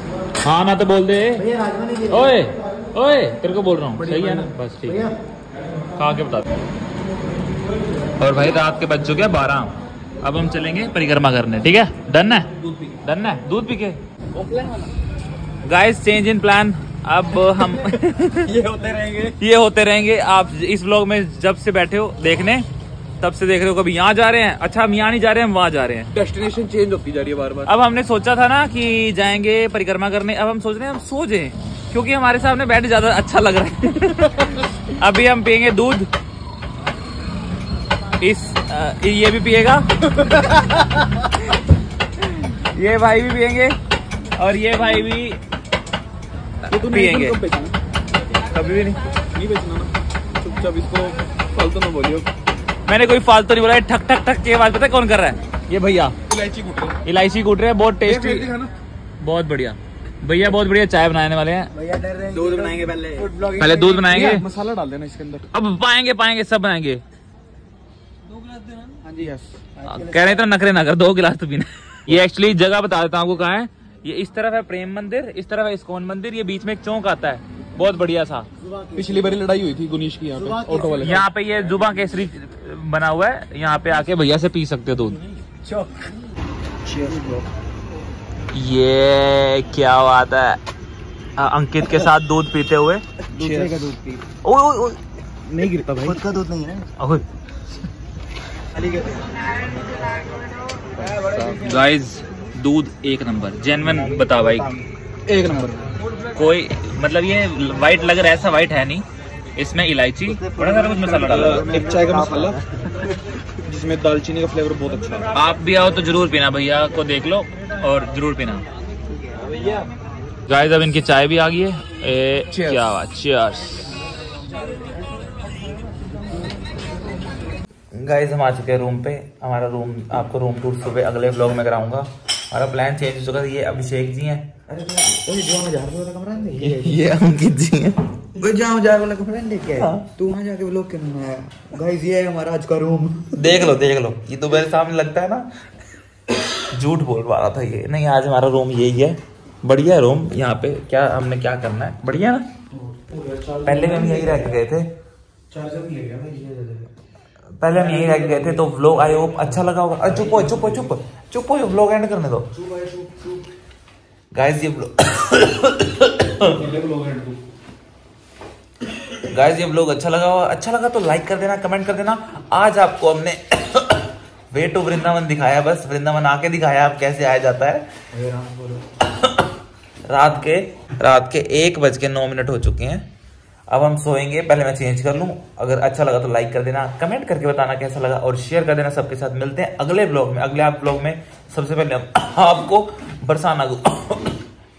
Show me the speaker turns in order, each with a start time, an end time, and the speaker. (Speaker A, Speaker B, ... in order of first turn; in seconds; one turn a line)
Speaker A: 0.4-1.5
Speaker B: 1.6-2.0
Speaker A: 2.1-5.1
Speaker C: 4.0-4.5
Speaker A: 6.0-6.5
Speaker A: 8.2-12.5
Speaker A: 13.0-14.0
Speaker C: 14.3-14.9
Speaker A: 15.6-18.5
Speaker C: 18.5-19.3
Speaker A: 19.4-22.7
Speaker A: 23.2-26.1
Speaker C: 26.1-27.7
Speaker A: 27.7-36.1
Speaker A: 38.2-39.9
Speaker C: 40.2-40.8
Speaker A: 42.2-43.8
Speaker A: 44.4-45.4
Speaker A: 46.7-47.4
Speaker C: 46.7-47.7
Speaker A: 48.5-49.0
Speaker C: 49.3-52.3
Speaker A: 52.9-56.1
Speaker C: 56.3-57.0
Speaker A: 57.0-58.5
Speaker C: 58.0-58.7
Speaker A: 59.2-61.7
Speaker B: 61.8-63.3
Speaker C: 62.3-65.5
Speaker A: 63.6-64.5
Speaker A: 65.5-67.0
Speaker C: 68.5-69.5
Speaker B: 69.1-69.3
Speaker A: 69.8-78.5
Speaker C: 79.0-81.2
Speaker A: 81.0-85.2
Speaker C: 85.7-85.9
Speaker B: 86.9-87.4
Speaker C: 87.0-87.4
Speaker A: 88.5-90.6
Speaker A: 91.4-93.0
Speaker B: 93.3-94.2
Speaker C: 93.3-93.7
Speaker A: 94.4-95.0
Speaker B: 95.5-96.9
Speaker A: 97.0-97.2
Speaker B: 98.7-99.3
Speaker C: 101.0-101.7
Speaker B: 101.0-101.5
Speaker A: 101.5-104.8
Speaker B: 103.8-104.8
Speaker C: 105.3-105.9
Speaker A: 106.3-109.0
Speaker A: 109.6-111.8
Speaker B: 110.3-112.7
Speaker C: 111.0-115.3
Speaker A: 115.3-118.6
Speaker B: 119.1-119.8
Speaker C: 119.4-119.9
Speaker A: 120.5-123.9
Speaker C: 122.5-122.9
Speaker A: 127.9-134.6
Speaker B: 134.7-137.2
Speaker A: 136.5-138.1
Speaker B: 138.3-143.6
Speaker A: 139.8-140.0
Speaker A: 143.3-145.5
Speaker A: 146.7-152.5
Speaker C: 152.7-154.5
Speaker A: 153.6-154.9
Speaker C: 155.5-156.9
Speaker A: 157.6-162.5
Speaker C: 157.7-160.9
Speaker C: 162.6-163.4
Speaker A: 164.3-166.6
Speaker C: 166.4-167.4
Speaker A: 169.2-177.9
Speaker C: 178.2-178.8
Speaker A: 179.2-179.5
Speaker A: 180.1-183.1
Speaker A: 183.7-194.4